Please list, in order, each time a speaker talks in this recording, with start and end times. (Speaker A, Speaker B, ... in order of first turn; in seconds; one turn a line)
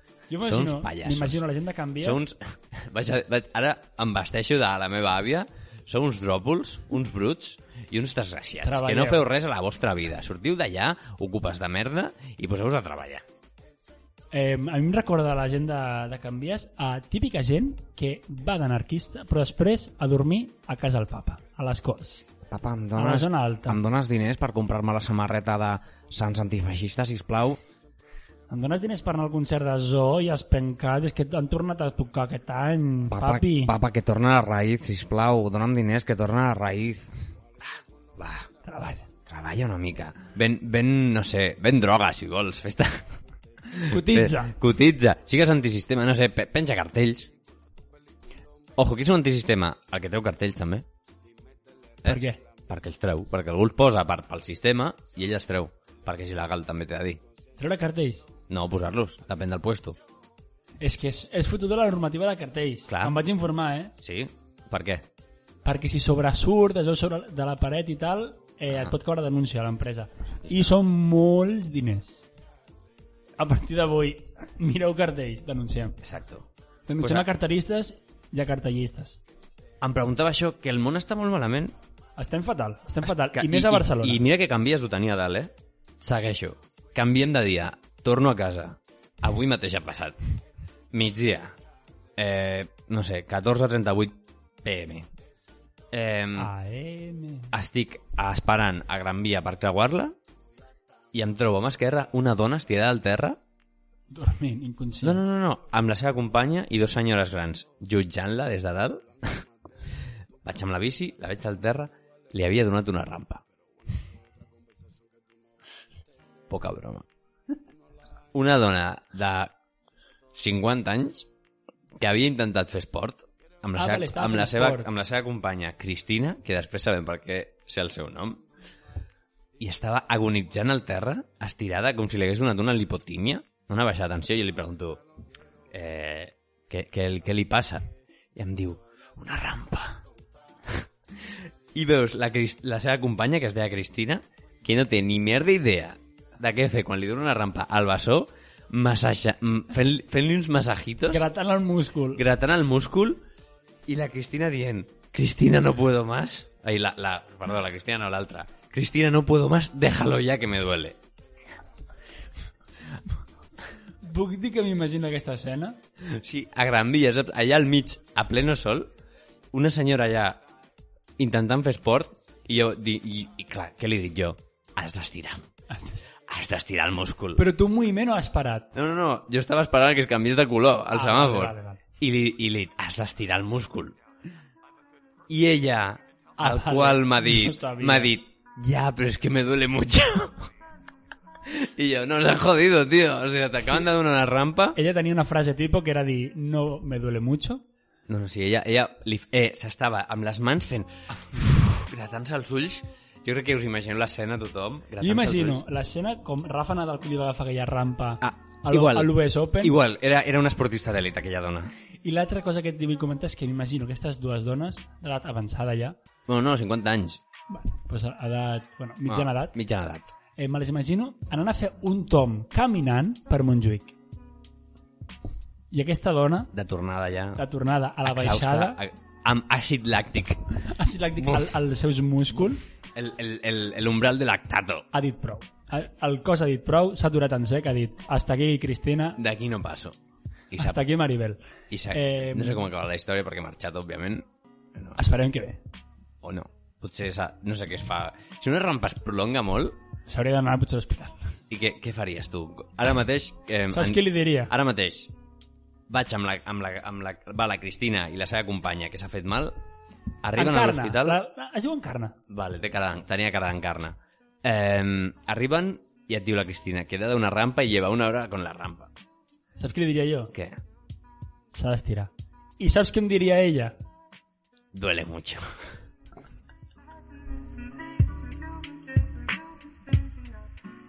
Speaker A: 0.3-2.3
Speaker B: 0.4-1.4
Speaker B: 2.0-13.2
Speaker A: 8.6-9.3
Speaker A: 14.3-22.3
Speaker B: 22.5-27.6
Speaker A: 23.0-23.8
Speaker A: 28.5-33.7
Speaker B: 33.1-38.5
Speaker A: 38.6-39.1
Speaker B: 39.3-43.1
Speaker B: 43.7-47.3
Speaker A: 43.8-44.6
Speaker B: 48.8-50.9
Speaker B: 52.0-57.2
Speaker A: 52.0-52.4
Speaker A: 57.6-58.3
Speaker B: 58.5-60.0
Speaker A: 60.8-63.9
Speaker B: 62.9-63.2
Speaker B: 64.0-65.1
Speaker A: 65.7-72.2
Speaker A: 73.4-76.0
Speaker B: 76.0-76.5
Speaker A: 76.9-79.2
Speaker B: 77.0-77.3
Speaker B: 79.8-81.8
Speaker A: 82.2-84.2
Speaker B: 83.0-90.2
Speaker B: 90.9-91.5
Speaker B: 92.2-95.1
Speaker B: 95.9-96.5
Speaker A: 96.4-97.5
Speaker B: 97.5-100.2
Speaker B: 101.1-103.4
Speaker A: 104.1-105.2
Speaker B: 105.0-109.5
Speaker B: 110.4-113.4
Speaker B: 116.5-117.1
Speaker B: 118.3-119.5
Speaker B: 120.3-121.3
Speaker B: 122.0-128.4
Speaker A: 123.8-124.9
Speaker B: 129.6-135.0
Speaker B: 135.7-140.0
Speaker B: 140.7-151.3
Speaker A: 151.1-152.2
Speaker B: 152.2-153.2
Speaker B: 153.9-161.0
Speaker A: 164.0-165.8
Speaker B: 166.0-168.9
Speaker B: 169.5-170.4
Speaker B: 171.2-175.4
Speaker A: 175.7-176.1
Speaker B: 176.3-177.4
Speaker A: 177.4-178.7
Speaker B: 178.7-184.0
Speaker A: 180.9-181.8
Speaker B: 185.3-190.5
Speaker A: 186.4-188.2
Speaker B: 191.5-194.8
Speaker A: 194.8-197.6
Speaker B: 198.1-205.6
Speaker A: 205.0-209.8
Speaker B: 208.2-211.7
Speaker A: 212.0-216.0
Speaker B: 216.3-217.2
Speaker A: 217.5-219.6
Speaker B: 219.1-220.1
Speaker A: 220.4-223.9
Speaker A: 225.7-226.5
Speaker B: 226.5-227.4
Speaker A: 227.4-228.8
Speaker B: 228.0-230.4
Speaker A: 230.6-232.6
Speaker B: 232.9-234.9
Speaker A: 234.9-239.2
Speaker B: 239.2-240.0
Speaker B: 240.5-240.8
Speaker A: 240.6-242.7
Speaker B: 241.7-245.0
Speaker A: 245.0-245.6
Speaker B: 246.2-249.8
Speaker A: 250.1-251.2
Speaker B: 251.5-255.1
Speaker A: 253.7-254.5
Speaker B: 255.9-259.6
Speaker B: 260.2-261.2
Speaker A: 260.4-262.2
Speaker B: 262.3-268.9
Speaker A: 269.6-270.3
Speaker B: 270.3-270.6
Speaker A: 271.5-273.8
Speaker B: 274.7-275.7